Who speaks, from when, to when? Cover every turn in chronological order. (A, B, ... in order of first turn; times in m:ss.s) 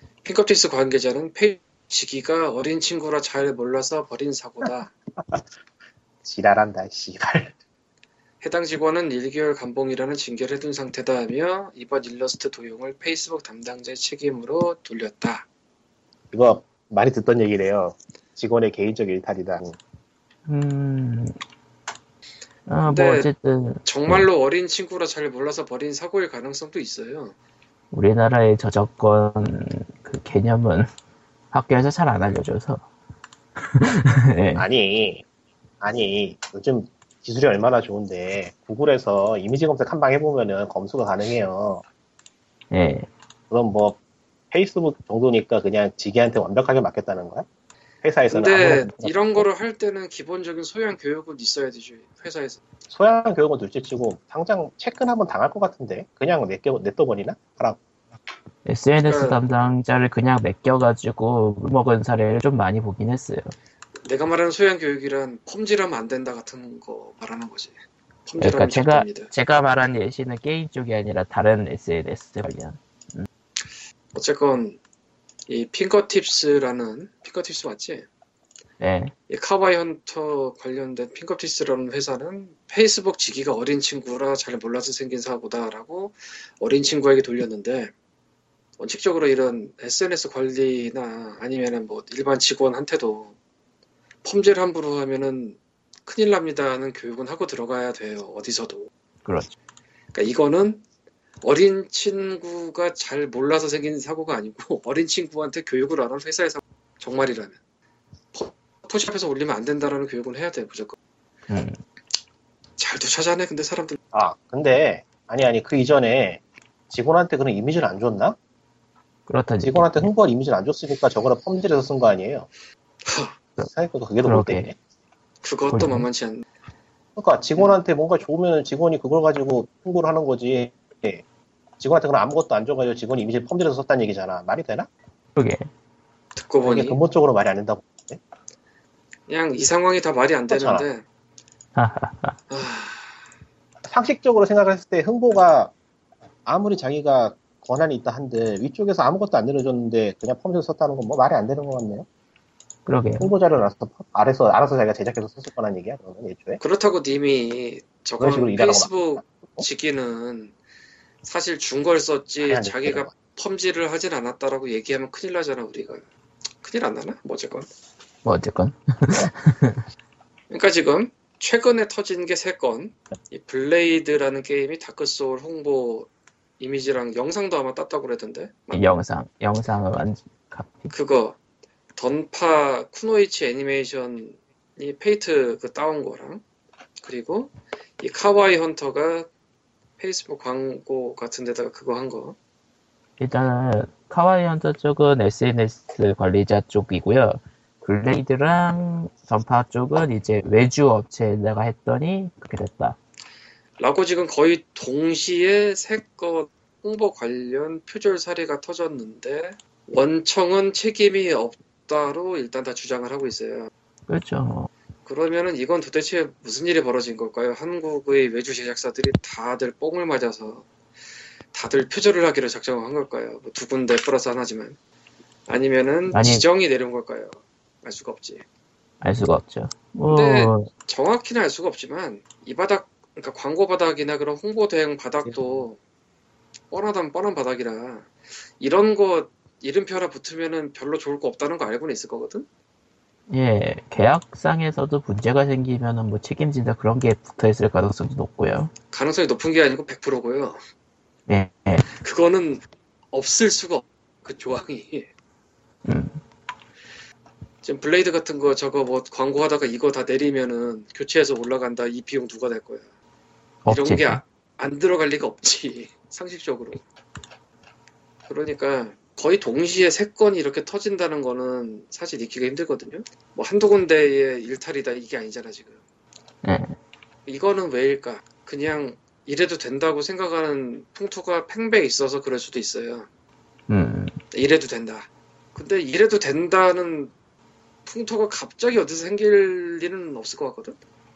0:00.2-0:04.9 A
0:04.6-0:05.4 B
0:06.2-0:07.5 B
0:08.4-0:15.4 A
0:16.3-0:19.8 B
0:20.5-0:21.4 C
0:22.7-0:24.2 C
0:22.9-0:23.3 A
0:23.8-0:27.3 A
0:27.9-0:30.9 C
0:31.5-0:32.8 C
0:33.7-0:34.6 C
0:34.6-0:35.2 B
0:35.8-0:41.8 B
0:42.7-0:43.1 C
0:43.5-0:44.0 B
0:44.5-0:47.4 B
0:48.0-0:49.4 B
0:48.3-0:52.6 A
0:52.9-0:57.8 B
0:58.6-1:03.5 C
0:59.0-0:59.4 A
1:04.0-1:07.7 A
1:08.2-1:09.3 A
1:08.4-1:13.3 C
1:14.1-1:14.8 A
1:15.5-1:18.1 A
1:18.8-1:19.1 C
1:19.3-1:27.9 A
1:28.8-1:33.3 A
1:34.2-1:38.9 A
1:39.2-1:39.6 C
1:40.1-1:40.8 A
1:41.4-1:47.6 A
1:48.3-1:51.0 A
1:51.5-1:51.8 C
1:52.8-1:54.0 A
1:54.1-1:58.4 B
1:59.3-2:00.1 C
1:59.6-2:02.5 B
2:03.0-2:03.4 A
2:03.7-2:04.8 B
2:04.2-2:04.7 C
2:05.4-2:06.4 A
2:05.7-2:06.1 C
2:07.2-2:11.2 B
2:11.8-2:14.9 B
2:15.4-2:15.7 C
2:16.4-2:17.0 A
2:16.6-2:18.2 B
2:19.3-2:21.0 A
2:20.5-2:20.9 B
2:21.7-2:22.4 C
2:22.5-2:23.1 A
2:23.9-2:25.7 B
2:26.4-2:32.1 B
2:32.9-2:33.3 C
2:33.2-2:36.6 B
2:36.6-2:40.5 A
2:38.2-2:39.7 B
2:41.2-2:46.0 A
2:42.4-2:43.1 B
2:46.6-2:47.7 A
2:48.2-2:49.8 C
2:50.5-2:58.9 A
2:58.7-3:00.9 C
3:00.9-3:01.4 A
3:02.0-3:06.4 A
3:07.0-3:09.3 A
3:10.0-3:12.4 A
3:13.2-3:23.0 C
3:23.8-3:33.7 A
3:34.1-3:34.7 C
3:35.0-3:40.7 A
3:41.5-3:44.8 A
3:45.5-3:48.4 A
3:46.1-3:46.4 C
3:49.0-3:50.7 C
3:50.1-3:55.8 A
3:56.7-4:02.5 A
4:03.3-4:08.7 C
4:08.9-4:10.6 A
4:11.3-4:11.9 C
4:11.9-4:15.1 A
4:15.8-4:16.2 C
4:17.6-4:22.8 A
4:23.6-4:24.2 C
4:23.7-4:26.8 A
4:28.3-4:35.8 A
4:36.4-4:36.7 C
4:37.2-4:43.1 A
4:43.7-4:44.2 C
4:44.3-4:47.1 A
4:47.9-4:50.8 A